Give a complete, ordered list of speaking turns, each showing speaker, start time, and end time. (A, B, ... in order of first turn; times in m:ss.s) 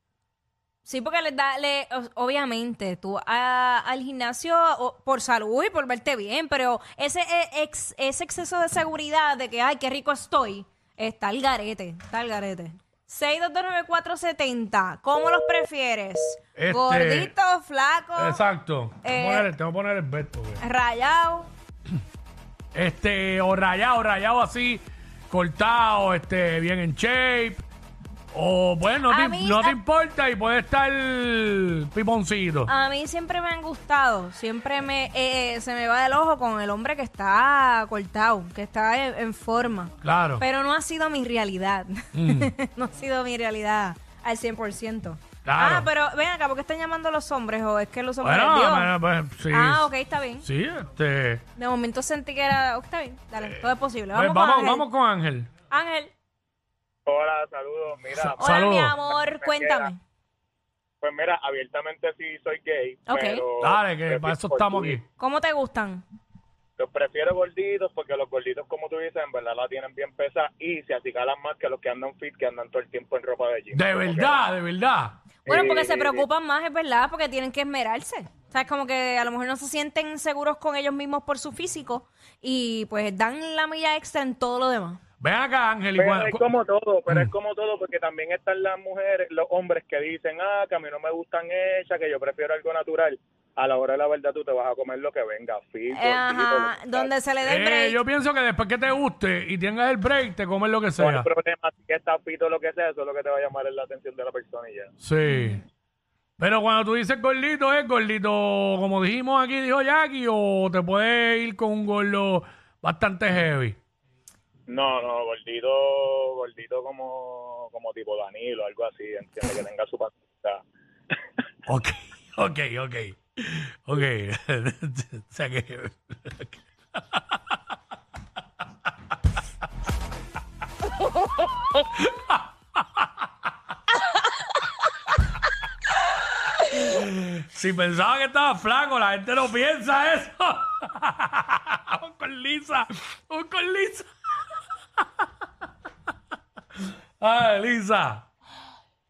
0:00.8-0:18.4 A
0:16.6-0:17.4 B
0:18.2-0:20.6 B
0:19.0-0:19.5 A
0:20.6-0:21.5 A
0:22.7-0:27.6 B
0:28.3-0:32.7 B
0:29.1-0:29.8 A
0:32.7-0:49.0 A
0:40.0-0:40.4 B
0:42.2-0:42.5 B
0:45.4-0:45.9 B
0:48.2-0:49.9 B
0:49.5-0:50.5 A
0:50.4-0:51.4 B
0:51.6-0:54.9 A
0:54.1-0:55.5 B
0:55.7-0:56.1 A
0:57.1-0:59.9 C
0:58.2-0:59.0 B
0:58.4-1:00.0 A
1:01.0-1:05.0 C
1:03.1-1:03.4 A
1:03.6-1:05.1 B
1:05.2-1:06.0 A
1:06.8-1:14.3 C
1:13.7-1:15.2 B
1:15.5-1:16.2 C
1:15.5-1:25.0 A
1:25.2-1:26.4 B
1:26.0-1:37.1 C
1:35.9-1:38.0 A
1:37.4-1:41.3 B
1:41.0-1:44.9 C
1:45.0-1:45.6 B
1:45.3-1:45.6 A
1:46.4-1:53.8 B
1:54.7-2:00.6 C
2:01.7-2:07.4 B
2:11.9-2:13.1 B
2:16.8-2:24.1 B
2:27.2-2:28.2 B